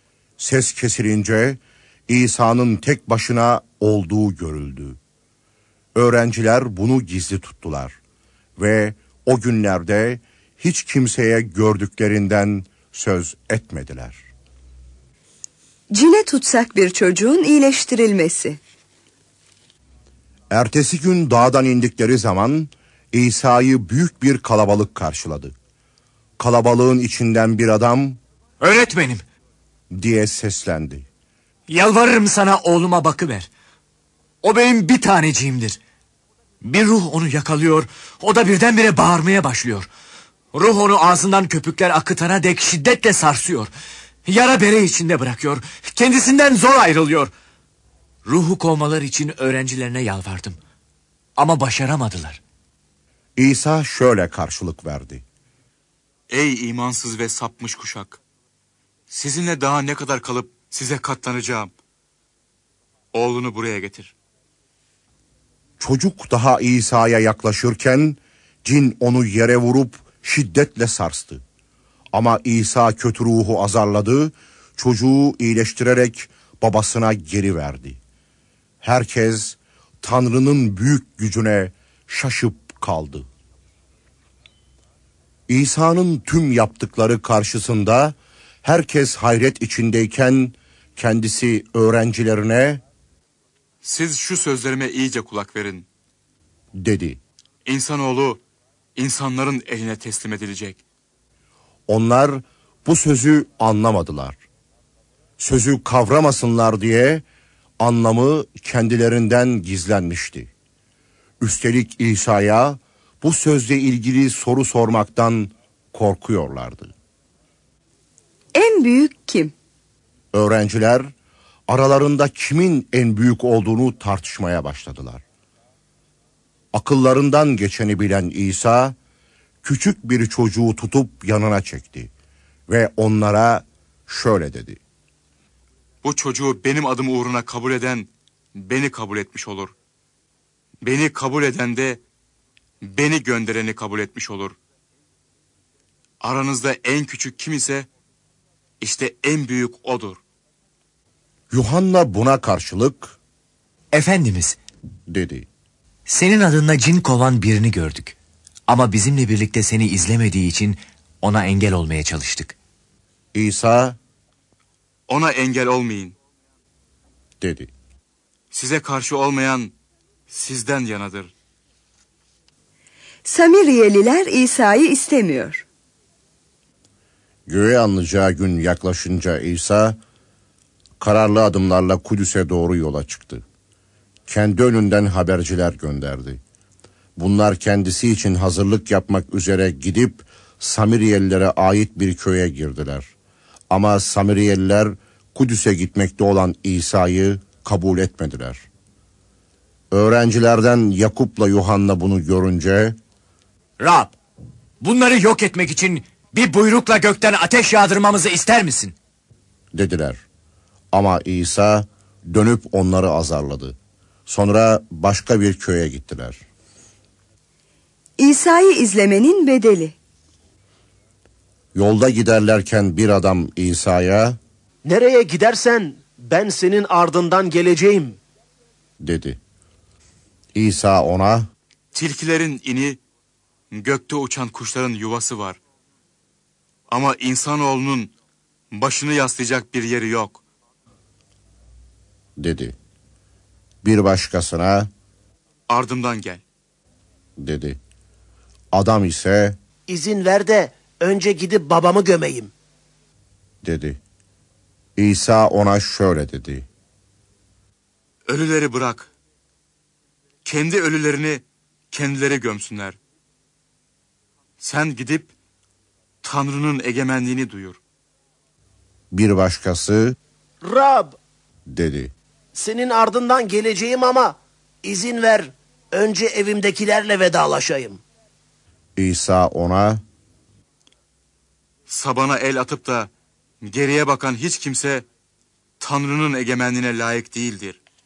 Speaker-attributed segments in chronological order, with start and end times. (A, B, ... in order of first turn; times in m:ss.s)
0:00.4-0:05.0 A
0:06.0-0:08.0 A
0:08.6-0:14.2 A
0:15.9-0:18.6 B
0:20.5-0:25.5 A
0:26.4-0:28.2 A
0:28.6-0:29.2 C
0:29.9-0:31.0 A
0:31.7-0:33.5 C
0:34.4-0:35.8 C
0:36.6-0:39.9 C
0:40.5-0:43.7 C
0:44.2-0:47.3 C
0:48.2-0:50.6 C
0:51.4-0:52.4 C
0:53.4-0:55.2 A
0:56.3-0:58.2 D
0:59.1-1:01.7 D
1:03.1-1:04.1 D
1:05.8-1:11.4 A
1:12.1-1:18.0 A
1:18.8-1:23.3 A
1:25.5-1:32.8 A
1:33.8-1:35.9 D
1:36.8-1:37.2 A
1:37.6-1:38.4 D
1:39.0-1:40.8 D
1:41.9-1:44.4 A
1:45.4-1:47.2 A
1:47.8-1:50.5 A
1:51.4-1:56.9 A
1:58.6-1:59.5 B
2:00.3-2:01.1 A
2:01.7-2:05.2 A
2:06.7-2:09.0 A
2:09.6-2:12.1 A
2:12.7-2:14.8 A
2:16.0-2:19.7 D
2:20.8-2:22.0 D
2:22.8-2:24.6 D
2:26.2-2:27.9 D
2:28.8-2:30.2 D
2:31.5-2:33.2 A
2:33.9-2:34.6 C
2:35.1-2:35.5 A
2:36.1-2:38.2 C
2:38.7-2:42.6 C
2:43.3-2:44.0 A
2:45.1-2:46.2 D
2:47.4-2:47.7 A
2:48.5-2:49.7 D
2:50.3-2:51.3 D
2:53.2-2:55.7 B
2:57.5-3:00.0 A
3:01.0-3:03.4 A
3:04.3-3:06.4 A
3:07.2-3:13.1 A
3:13.7-3:18.6 A
3:19.9-3:23.0 A
3:23.8-3:24.2 C
3:24.8-3:29.0 C
3:29.8-3:30.2 A
3:30.9-3:33.8 A
3:34.3-3:36.4 A
3:38.2-3:40.0 B
3:41.8-3:44.4 A
3:44.8-3:48.2 E
3:49.0-3:49.4 A
3:50.6-3:51.5 A
3:51.9-3:53.0 D
3:53.7-3:55.6 D
3:56.9-3:58.1 D
3:58.7-4:00.4 D
4:02.4-4:02.8 A
4:03.8-4:04.9 A
4:05.7-4:06.4 D
4:07.4-4:07.8 A
4:08.7-4:09.6 A
4:09.9-4:12.5 E
4:13.6-4:14.0 A
4:15.0-4:16.7 A
4:18.3-4:19.1 D
4:20.4-4:23.0 D
4:24.6-4:25.3 D
4:26.2-4:27.8 D
4:29.1-4:30.2 A
4:30.6-4:31.2 E
4:31.7-4:32.1 A
4:32.6-4:38.0 E
4:39.0-4:40.0 A
4:41.9-4:43.1 D
4:43.6-4:45.0 D
4:45.8-4:47.8 D